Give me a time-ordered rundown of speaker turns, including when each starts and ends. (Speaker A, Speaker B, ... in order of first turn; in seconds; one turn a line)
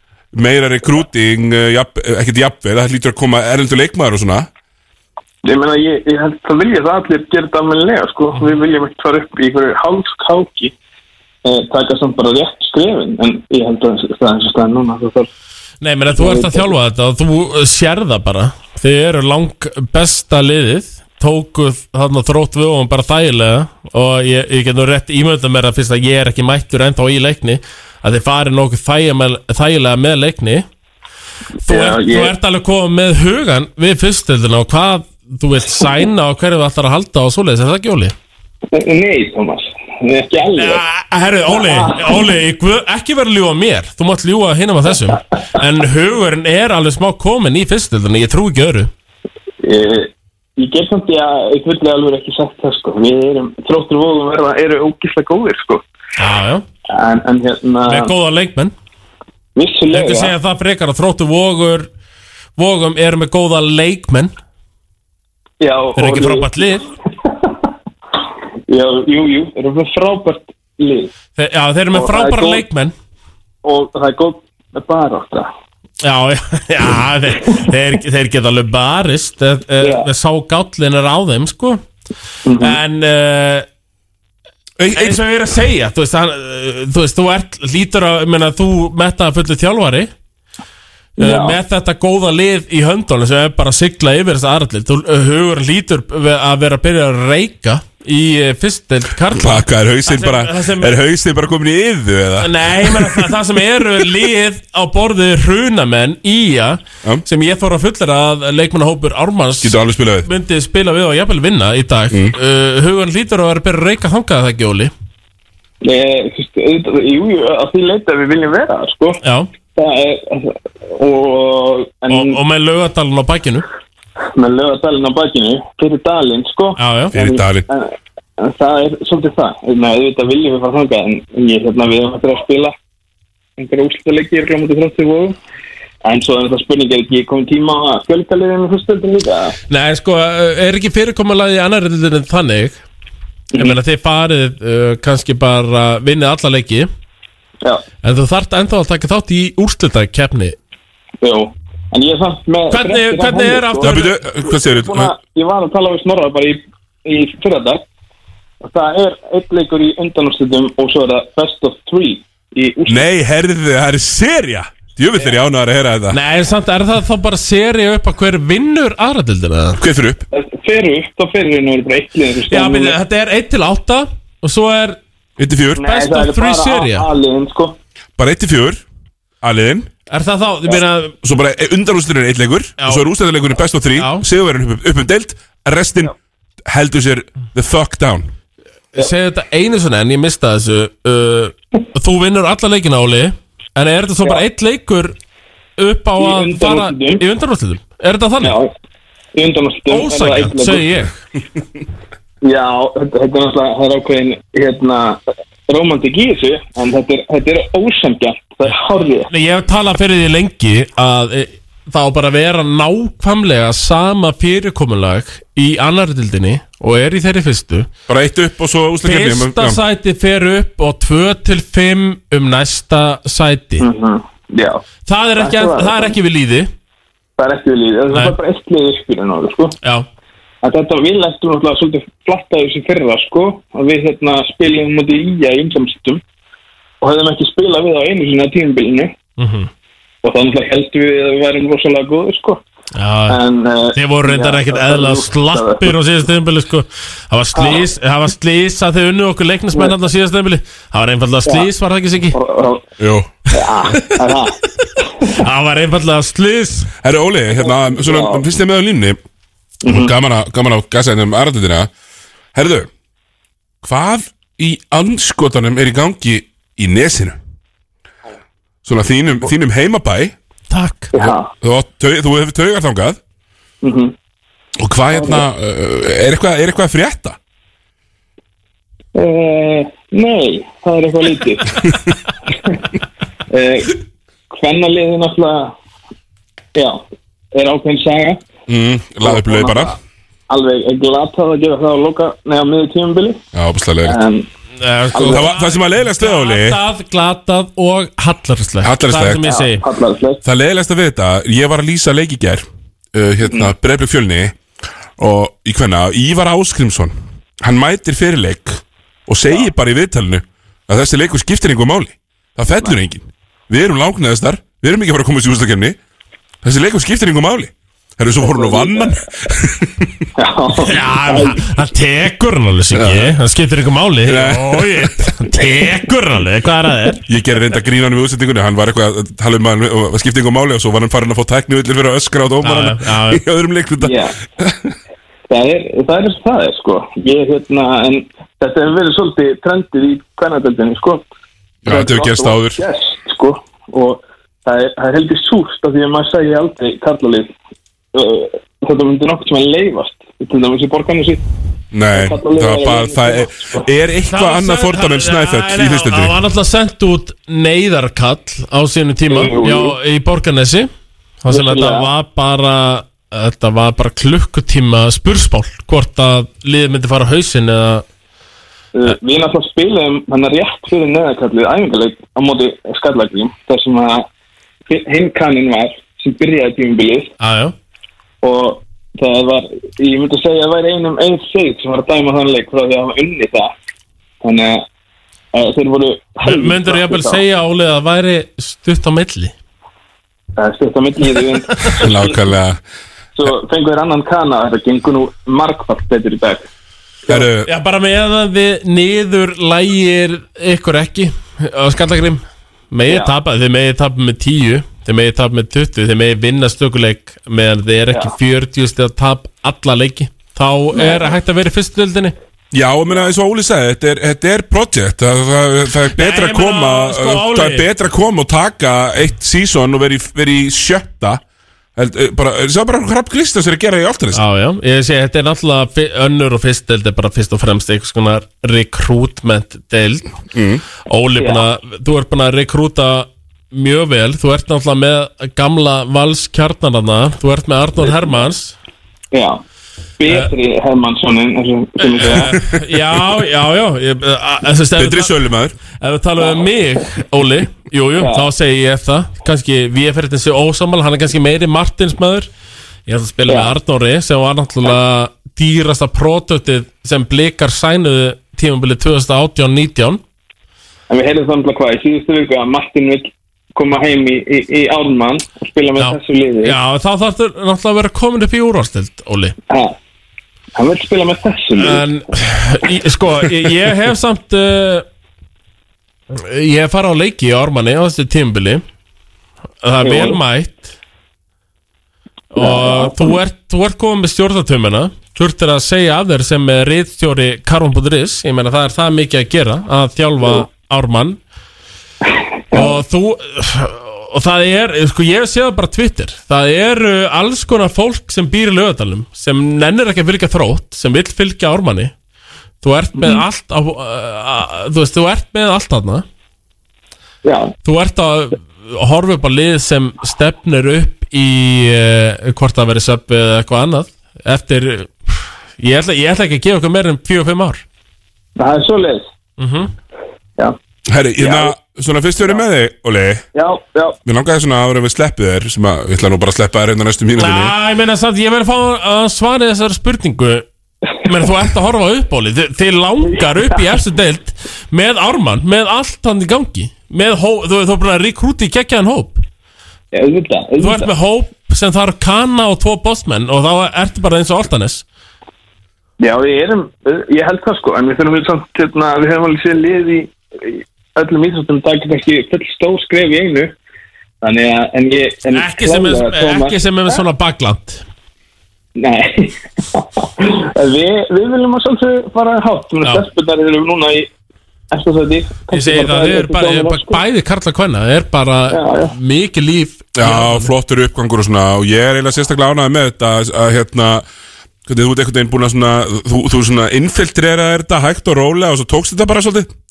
Speaker A: 0.3-4.5
Speaker B: 5.4-10.7
Speaker B: 11.4-15.3
Speaker C: 15.8-30.6
Speaker B: 16.1-16.7
Speaker C: 31.6-38.1
Speaker B: 31.7-32.3
Speaker B: 38.7-40.8
Speaker C: 40.5-48.9
Speaker B: 41.5-42.3
Speaker B: 49.6-55.8
Speaker C: 56.2-56.6
Speaker B: 56.9-58.1
Speaker C: 57.9-58.7
Speaker B: 59.5-60.3
Speaker C: 59.9-61.9
Speaker C: 62.6-64.3
Speaker B: 65.6-66.7
Speaker C: 66.0-66.9
Speaker B: 68.7-71.1
Speaker C: 71.3-72.9
Speaker B: 71.9-72.6
Speaker B: 73.6-75.5
Speaker C: 76.0-81.8
Speaker B: 79.8-80.1
Speaker B: 82.5-82.8
Speaker C: 82.6-83.7
Speaker A: 84.8-85.2
Speaker C: 84.9-90.1
Speaker C: 91.2-101.0
Speaker B: 91.2-91.6
Speaker A: 99.3-103.3
Speaker C: 102.4-114.9
Speaker A: 109.6-110.3
Speaker B: 115.8-119.2
Speaker C: 119.2-119.5
Speaker B: 119.7-122.4
Speaker C: 122.1-123.7
Speaker B: 124.3-132.7
Speaker C: 126.8-127.1
Speaker A: 127.1-127.7
Speaker B: 133.6-135.4
Speaker B: 136.0-139.5
Speaker C: 139.7-142.8
Speaker C: 143.5-146.9
Speaker C: 148.0-150.6
Speaker B: 151.2-157.8
Speaker C: 152.7-154.2
Speaker A: 153.8-155.1
Speaker B: 158.6-163.1
Speaker A: 162.9-166.2
Speaker C: 166.1-169.8
Speaker A: 169.8-170.2
Speaker B: 170.3-173.0
Speaker C: 172.5-175.0
Speaker A: 175.4-175.8
Speaker B: 175.8-177.8
Speaker C: 175.8-177.1
Speaker A: 178.2-178.8
Speaker A: 179.4-179.9
Speaker C: 180.1-181.1
Speaker A: 181.2-186.1
Speaker C: 182.8-183.1
Speaker C: 184.0-184.2
Speaker A: 186.7-188.3
Speaker C: 188.9-195.1
Speaker C: 195.8-198.6
Speaker B: 196.2-197.2
Speaker B: 198.4-198.7
Speaker B: 199.3-200.9
Speaker C: 199.9-201.2
Speaker B: 202.4-209.3
Speaker C: 209.3-217.9
Speaker A: 218.1-219.8
Speaker C: 219.0-223.9
Speaker B: 223.8-224.8
Speaker C: 225.1-226.7
Speaker B: 225.4-226.2
Speaker B: 227.4-229.8
Speaker C: 228.1-228.4
Speaker B: 230.6-236.2
Speaker B: 237.0-239.2
Speaker C: 239.4-239.7
Speaker B: 240.2-242.6
Speaker C: 242.9-243.4
Speaker B: 243.3-246.0
Speaker C: 243.9-252.4
Speaker B: 247.5-247.9
Speaker B: 252.3-252.9
Speaker A: 253.0-253.3
Speaker B: 253.5-255.3
Speaker C: 255.2-256.9
Speaker A: 257.0-259.2
Speaker B: 257.5-258.4
Speaker B: 259.8-260.1
Speaker A: 259.9-261.9
Speaker A: 262.5-262.9
Speaker A: 263.8-267.4
Speaker A: 268.8-270.3
Speaker C: 270.7-271.1
Speaker B: 271.1-271.5
Speaker A: 271.2-273.2
Speaker B: 273.8-274.1
Speaker A: 274.8-277.4
Speaker B: 275.1-275.4
Speaker B: 279.1-281.8
Speaker B: 283.5-285.7
Speaker B: 286.7-287.0
Speaker B: 287.5-288.4
Speaker A: 288.7-289.9
Speaker B: 289.2-290.0
Speaker B: 290.5-293.4
Speaker A: 293.5-294.2
Speaker B: 294.0-294.5
Speaker C: 294.8-299.8
Speaker B: 295.1-295.5
Speaker A: 295.2-296.8
Speaker A: 298.8-299.4
Speaker B: 299.4-300.4
Speaker A: 300.4-304.6
Speaker B: 303.4-303.7
Speaker A: 305.2-316.0
Speaker A: 316.6-320.2
Speaker B: 318.4-319.2
Speaker B: 320.4-321.6
Speaker C: 320.8-327.2
Speaker A: 322.9-323.4
Speaker A: 324.2-325.3
Speaker A: 327.2-334.9
Speaker C: 332.6-333.4
Speaker B: 334.0-334.3
Speaker B: 335.5-341.3
Speaker A: 341.8-342.8
Speaker B: 341.9-347.5
Speaker B: 348.1-351.4
Speaker A: 351.9-356.3
Speaker B: 352.1-353.9
Speaker C: 354.3-360.9
Speaker B: 359.3-360.0
Speaker C: 361.4-368.0
Speaker B: 361.5-362.1
Speaker B: 368.9-374.2
Speaker B: 374.9-377.3
Speaker C: 377.4-377.7
Speaker B: 378.4-383.7
Speaker B: 384.4-384.8
Speaker B: 385.5-387.4
Speaker C: 386.4-389.5
Speaker B: 390.6-392.4
Speaker A: 392.0-392.8
Speaker B: 393.3-396.6
Speaker A: 397.3-397.7
Speaker C: 397.6-412.3
Speaker B: 403.1-403.3
Speaker B: 411.0-411.3
Speaker A: 412.7-421.4
Speaker C: 416.1-417.9
Speaker A: 421.9-424.4
Speaker C: 424.3-430.3
Speaker A: 430.5-430.8
Speaker C: 431.1-438.7
Speaker B: 431.4-431.6
Speaker B: 438.1-438.4
Speaker B: 439.3-439.6
Speaker B: 440.2-442.6
Speaker C: 442.0-445.3
Speaker A: 445.0-445.7
Speaker C: 446.0-452.5
Speaker B: 448.2-448.5
Speaker C: 453.1-460.2
Speaker B: 453.5-453.8
Speaker B: 461.1-466.8
Speaker C: 466.0-469.6
Speaker B: 469.7-469.9
Speaker B: 470.7-472.1
Speaker C: 471.8-475.0
Speaker C: 476.3-478.8
Speaker C: 479.8-480.9
Speaker B: 480.0-480.4
Speaker C: 482.5-491.4
Speaker B: 482.6-483.3
Speaker C: 492.7-502.1
Speaker C: 502.8-506.2
Speaker B: 503.1-503.4
Speaker B: 507.4-507.7
Speaker C: 507.8-517.8
Speaker B: 518.5-519.3
Speaker C: 519.6-519.9
Speaker A: 521.1-523.4
Speaker B: 521.4-521.7
Speaker B: 523.5-524.2
Speaker A: 524.2-527.7
Speaker C: 527.4-530.6
Speaker C: 531.2-539.4
Speaker B: 533.3-533.8
Speaker B: 540.1-541.1
Speaker C: 540.8-545.0
Speaker B: 546.2-553.7
Speaker B: 554.4-557.2
Speaker C: 555.5-558.0
Speaker B: 559.0-564.3
Speaker B: 564.9-567.2
Speaker C: 565.7-570.7
Speaker B: 568.7-569.1
Speaker A: 570.1-574.2
Speaker A: 574.9-579.7